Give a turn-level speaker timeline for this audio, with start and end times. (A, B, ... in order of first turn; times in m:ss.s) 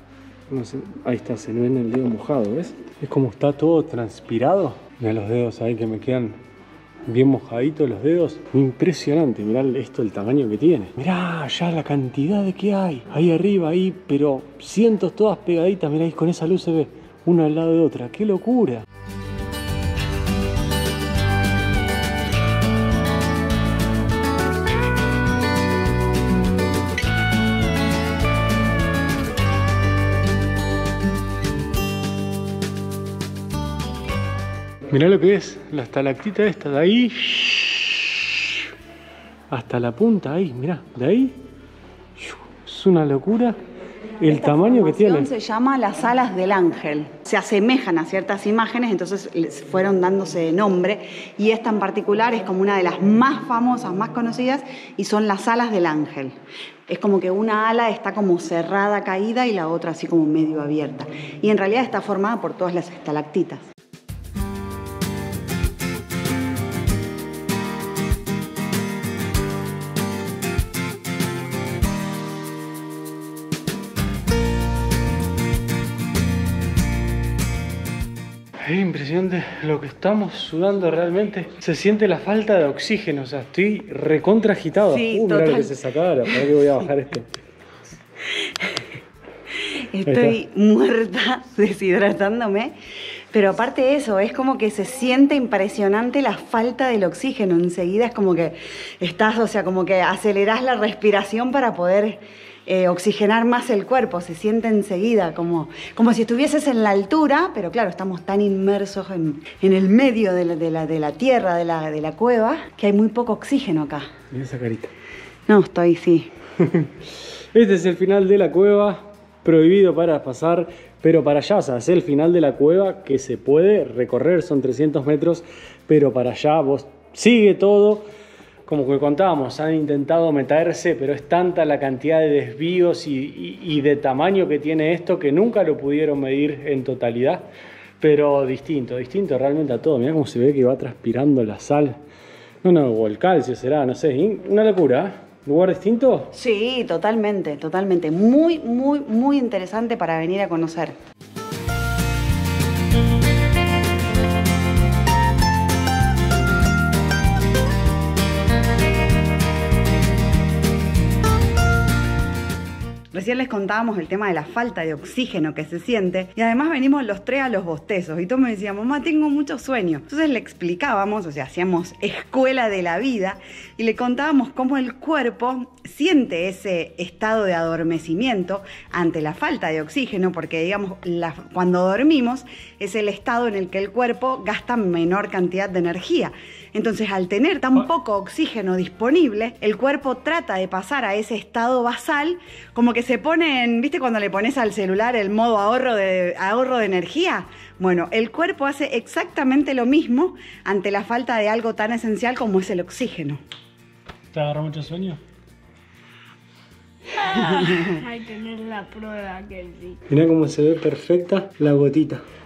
0:00.5-0:06.4 A
0:07.1-0:18.8 A
0:34.9-0:38.7 A
0:39.5-0:41.4 A
0:42.2-0:43.6 A
0:44.2-0:45.3 A
0:44.2-0:56.4 B
0:56.9-1:03.7 B
1:18.6-1:27.3 A
1:24.9-1:25.8 B
1:29.7-1:32.7 B
1:30.1-1:30.4 A
1:33.3-1:54.1 B
1:54.3-1:54.9 A
1:55.5-1:56.3 B
1:56.6-1:56.9 A
1:57.5-2:08.0 A
2:08.7-2:17.5 A
2:18.0-2:22.0 A
2:22.6-2:26.3 A
2:26.3-2:31.0 B
2:43.1-3:23.4 B
3:24.3-3:25.2 A
3:27.2-3:30.0 C
3:27.5-3:28.0 B
3:30.1-3:32.2 A